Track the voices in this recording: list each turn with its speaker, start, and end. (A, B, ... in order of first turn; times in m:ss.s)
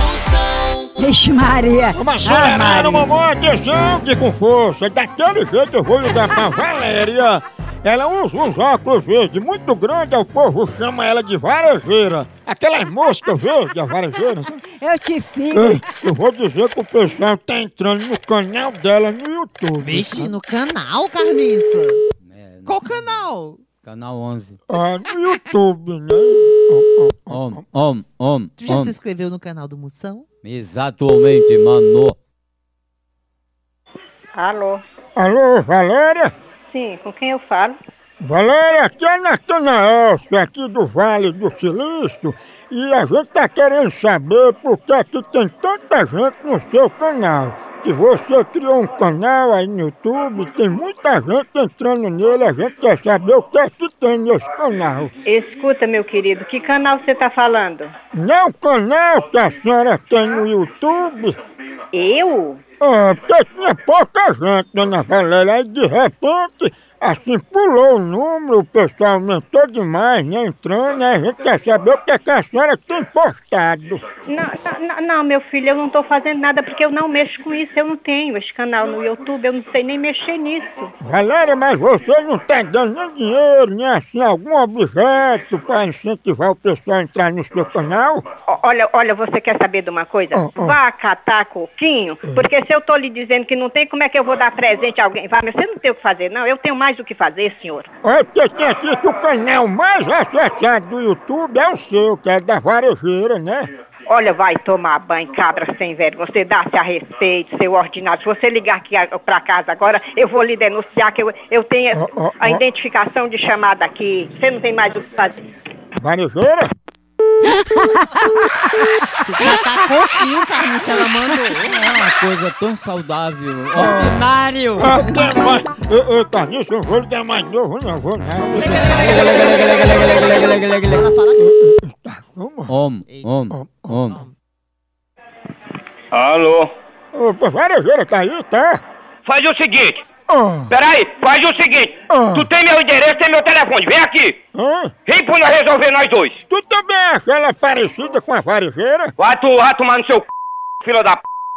0:01.0-0:03.0 A
0:01.9-0:14.6 B
0:14.7-0:15.8 A
0:15.5-0:20.3 B
0:19.8-0:22.0 C
0:22.2-0:24.6 D
0:22.6-0:23.6 C
0:24.7-0:27.6 B
0:27.3-0:28.9 D
0:28.6-0:30.2 C
0:30.4-0:32.2 D
0:34.3-0:34.8 E
0:35.2-0:36.3 B
0:36.7-0:37.8 E
0:38.2-0:55.1 B
0:55.2-0:57.9 E
0:58.1-1:01.4 B
1:01.9-1:02.6 E
1:02.8-1:14.0 B
1:14.3-1:20.9 E
1:21.0-1:28.2 B
1:28.5-1:37.9 E
1:30.3-1:30.8 B
1:38.0-1:43.7 B
1:44.1-1:55.5 E
1:51.9-1:52.6 B
1:56.0-1:56.7 B
1:59.2-2:01.8 C
2:01.6-2:05.0 D
2:03.8-2:04.1 B
2:04.8-2:09.1 B
2:08.6-2:11.4 C
2:08.8-2:11.1 D
2:11.4-2:12.7 B
2:12.7-2:14.2 D
2:13.1-2:13.3 C
2:13.5-2:14.0 B
2:14.0-2:14.3 C
2:16.1-2:16.7 F
2:17.1-2:18.8 B
2:19.2-2:20.0 F
2:20.3-2:20.7 B
2:20.7-2:24.4 F
2:22.1-2:22.5 B
2:24.5-2:24.9 B
2:25.0-2:26.4 F
2:26.5-2:29.1 B
2:29.2-2:30.2 F
2:30.8-2:31.2 F